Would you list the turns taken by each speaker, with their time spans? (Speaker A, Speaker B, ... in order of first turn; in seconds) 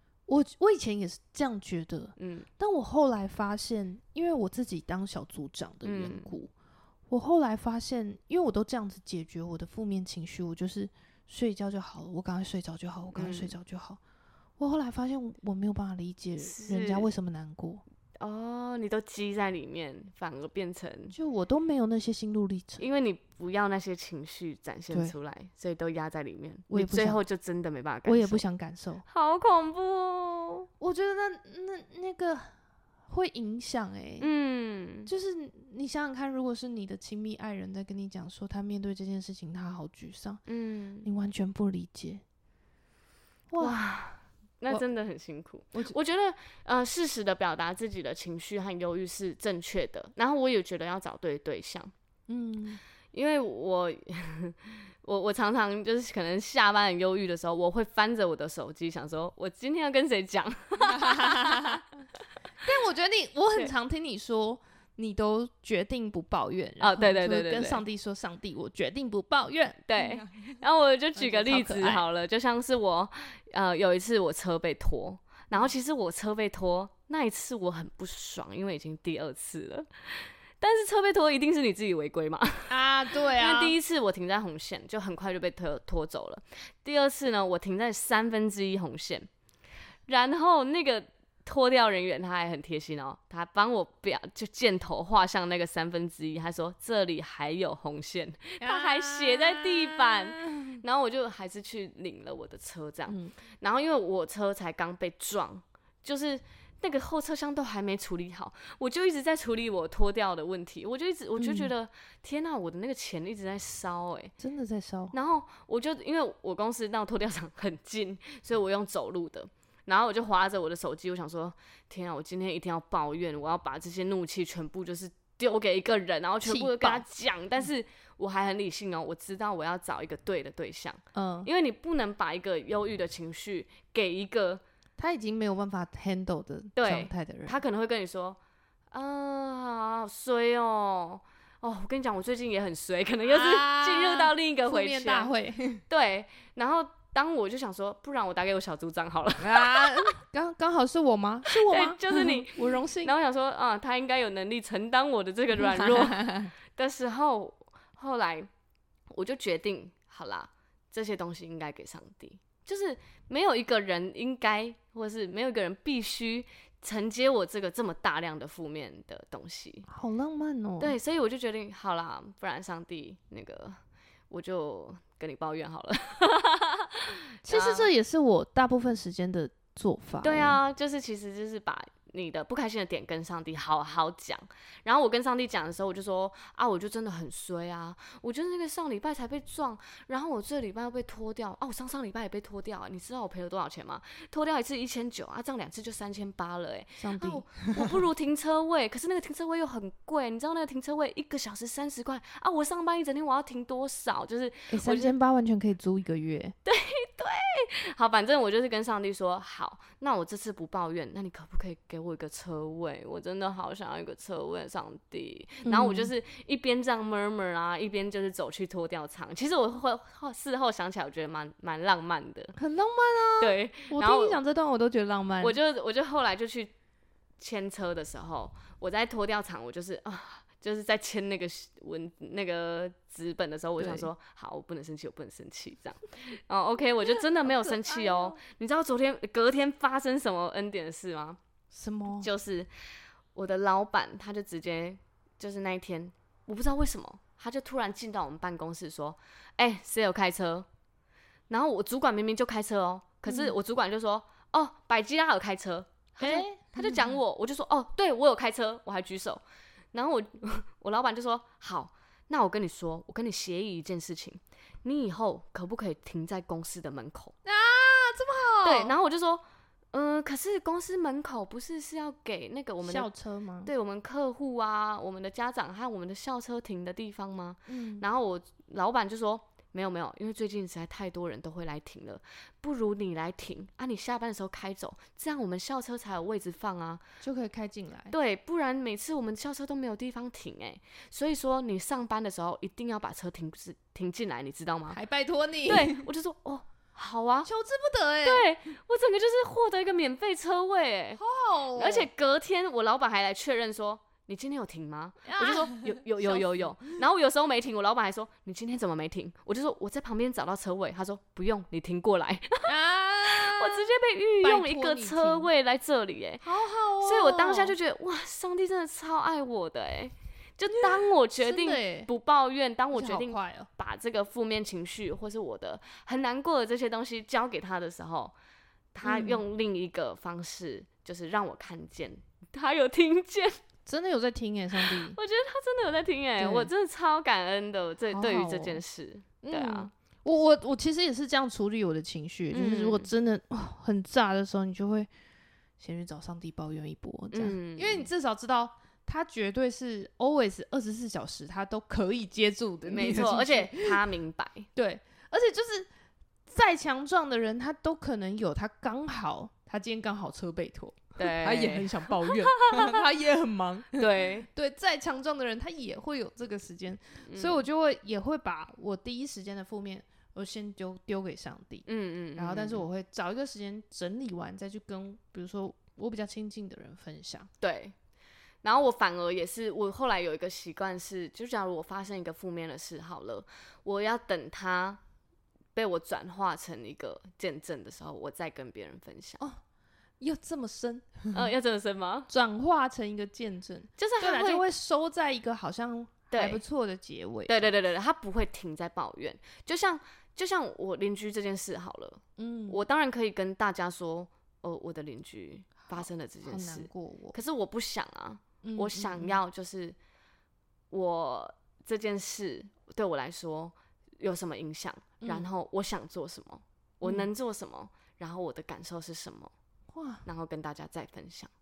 Speaker A: 0.3-6.5, 7.1-14.0, 14.6-17.8, 21.1-22.9, 26.7-27.2, 28.1-29.0, 30.8-32.5, 33.1-34.3, 35.1-40.4, 41.0-42.2, 43.5-44.0, 52.3-52.8, 60.9-61.8, 62.6-70.6, 71.2-72.0, 82.7-83.8, 98.6-100.8, 103.1-103.3, 111.4-111.7, 114.4-115.1, 126.5-127.1, 131.1-131.5, 135.0-137.6, 143.3-145.8, 149.4-153.1, 155.6-156.5, 169.9-171.0, 177.4-180.6, 197.0-197.9, 204.7-206.6, 215.7-216.1, 222.6-225.6, 233.8-234.1, 237.0-238.4, 241.7-242.3, 253.3-253.6, 256.2-257.2, 267.4-269.0, 272.8-273.7, 277.7-278.1, 287.2-288.1, 294.9-296.1, 297.4-298.4, 301.2-302.1, 305.2-306.9, 312.7-313.9, 314.4-315.5, 316.4-317.8, 320.8-322.1, 322.9-323.7, 329.0-329.4, 333.9-335.2, 336.4-336.7, 338.1-338.8, 339.4-345.1, 345.8-354.0, 354.8-355.9, 356.5-377.5, 390.2-391.3, 392.3-397.7, 402.4-402.8, 405.9-407.4, 408.6-409.4, 417.0-417.3, 419.9-420.2
Speaker B: 2.2-2.5, 5.8-6.3, 13.2-13.6, 16.4-17.1, 18.2-21.2, 22.8-28.4, 29.1-30.7, 34.2-35.1, 40.5-41.1, 43.6-51.9, 53.1-61.9, 66.8-67.8, 69.9-82.7, 83.3-89.3, 90.1-114.3, 115.1-134.6, 136.8-138.4, 138.9-145.3, 145.9-150.2, 151.5-158.5, 159.1-169.9, 170.8-177.9, 180.2-205.2, 206.7-222.6, 223.4-224.4, 225.4-226.7, 227.4-241.4, 242.2-242.7, 243.3-250.7, 251.5-259.4, 259.9-267.3, 268.6-273.1, 273.6-287.0, 288.1-295.0, 295.7-297.5, 298.2-301.2, 301.8-312.7, 313.3-316.5, 317.0-328.3, 328.9-333.6, 334.8-339.9, 342.5-343.1, 347.3-348.1, 352.9-354.7, 361.2-363.0, 364.0-364.5, 367.2-367.6, 371.9-372.9, 377.6-377.9, 378.6-385.0, 385.8-389.4, 391.3-392.3, 394.0-394.6, 396.3-396.6, 397.5-410.0, 410.9-419.5, 420.2-421.5